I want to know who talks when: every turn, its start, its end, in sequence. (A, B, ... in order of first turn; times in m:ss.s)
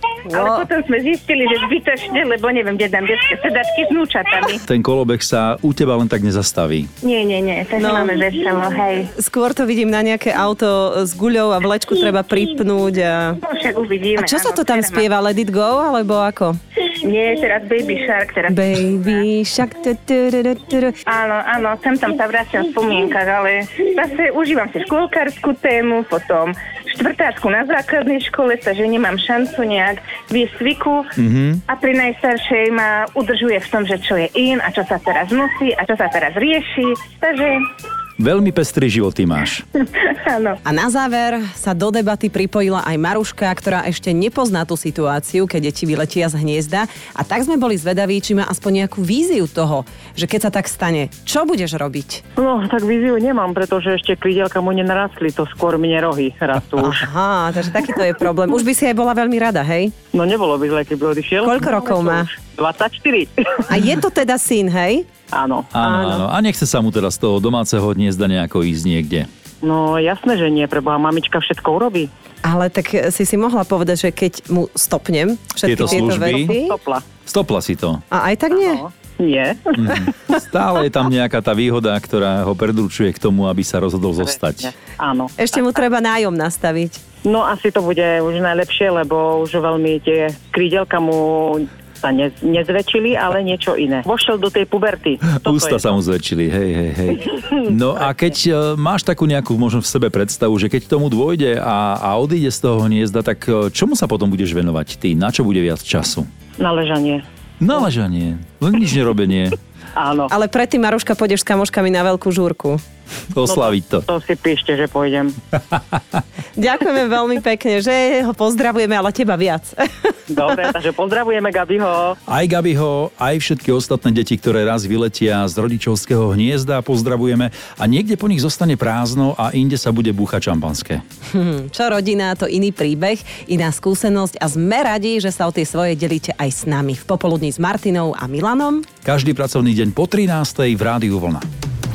0:00.3-0:04.6 A
0:00.3-0:00.6 B
0:04.7-0:06.9 C
0:07.0-0:09.1 A
0:07.8-0:08.2 B
0:09.1-0:13.4 B
0:13.4-0:15.0 A
0:14.2-0:16.6 B
0:17.0-0:19.0 A
0:18.5-0:21.0 B
0:21.1-0:31.1 A
0:31.2-0:31.6 C
0:31.7-0:37.6 A
0:38.2-0:39.6 C
0:39.8-0:40.6 A
0:40.6-0:52.2 B
0:52.4-0:57.0 D
0:56.8-0:59.9 B
1:00.1-1:03.6 D
1:01.4-1:02.3 B
1:03.7-1:05.1 B
1:05.3-1:05.7 D
1:05.7-1:09.3 C
1:05.8-1:06.2 B
1:09.6-1:12.1 D
1:12.4-1:16.8 B
1:15.6-1:16.6 C
1:15.8-1:17.0 D
1:17.3-1:18.0 C
1:18.1-1:18.8 B
1:18.5-1:20.1 D
1:19.8-1:24.7 C
1:24.2-1:25.6 D
1:25.4-1:27.0 B
1:27.2-1:35.9 D
1:35.3-1:46.3 C
1:46.6-1:47.2 D
1:47.6-1:49.6 C
1:50.0-1:50.3 D
1:50.3-1:52.8 B
1:53.3-1:54.1 C
1:53.4-1:55.4 D
1:56.6-2:00.2 B
2:00.3-2:02.2 D
2:02.3-2:11.0 C
2:11.3-2:18.9 B
2:19.0-2:21.5 C